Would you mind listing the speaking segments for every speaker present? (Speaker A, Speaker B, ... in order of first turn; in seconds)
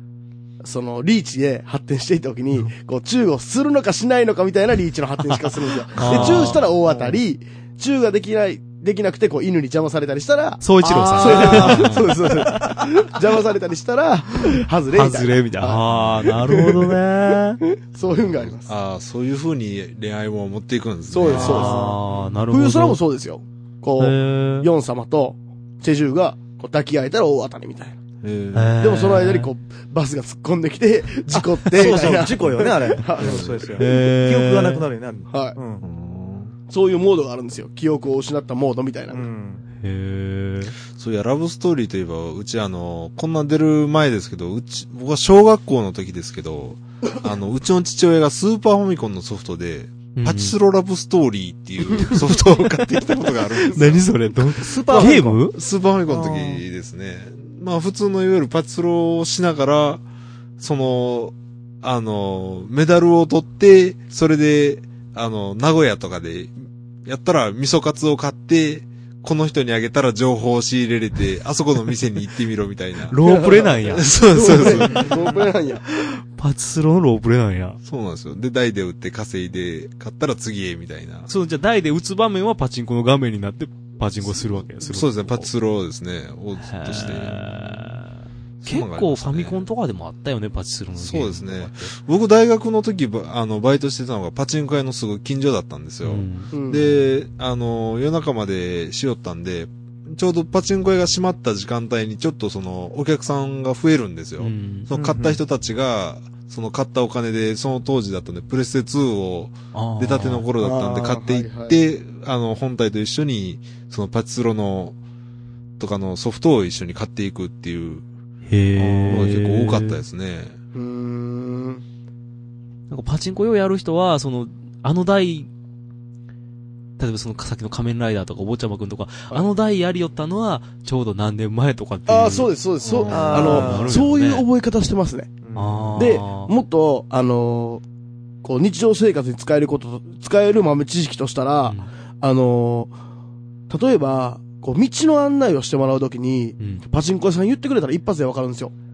Speaker A: 0.6-15.8, 16.5-17.0, 17.7-18.7, 21.1-22.0, 22.5-28.0, 28.8-33.8, 35.3-35.6, 36.7-39.2, 73.2-75.8, 96.5-96.9, 110.6-111.8, 120.7-121.8, 132.1-135.3, 136.0-137.8, 138.4-142.9, 143.7-148.7
Speaker B: 5.3-6.6, 10.6-11.9, 14.9-17.6, 21.3-23.0, 23.9-24.7, 28.5-29.5, 33.8-34.9, 39.8-40.8, 50.1-50.6, 52.0-52.5, 53.0-55.5, 73.1-77.8, 81.3-85.5, 86.6-91.9, 96.0-96.5, 104.4-104.9, 109.7-110.5, 118.5-120.0, 122.9-125.5, 127.0-132.5, 133.1-134.5, 135.5-136.5, 141.6-141.9, 146.6-146.8
Speaker C: 6.0-6.6, 11.4-12.2, 15.9-16.4, 18.2-21.8, 28.2-28.8, 32.4-33.5, 35.8-36.5, 40.9-54.0, 55.5-60.0, 60.6-66.5, 67.0-73.2, 73.9-75.3, 77.8-81.3, 84.3-88.0, 88.6-89.7, 91.0-115.0, 115.8-118.0, 118.8-120.5, 132.8-133.7
Speaker D: 6.1-7.2, 10.8-12.8, 21.3-22.0, 31.7-35.8, 39.1-39.6, 54.5-55.5, 56.1-56.6, 74.9-75.2, 104.9-105.4, 133.1-134.1, 135.4-136.1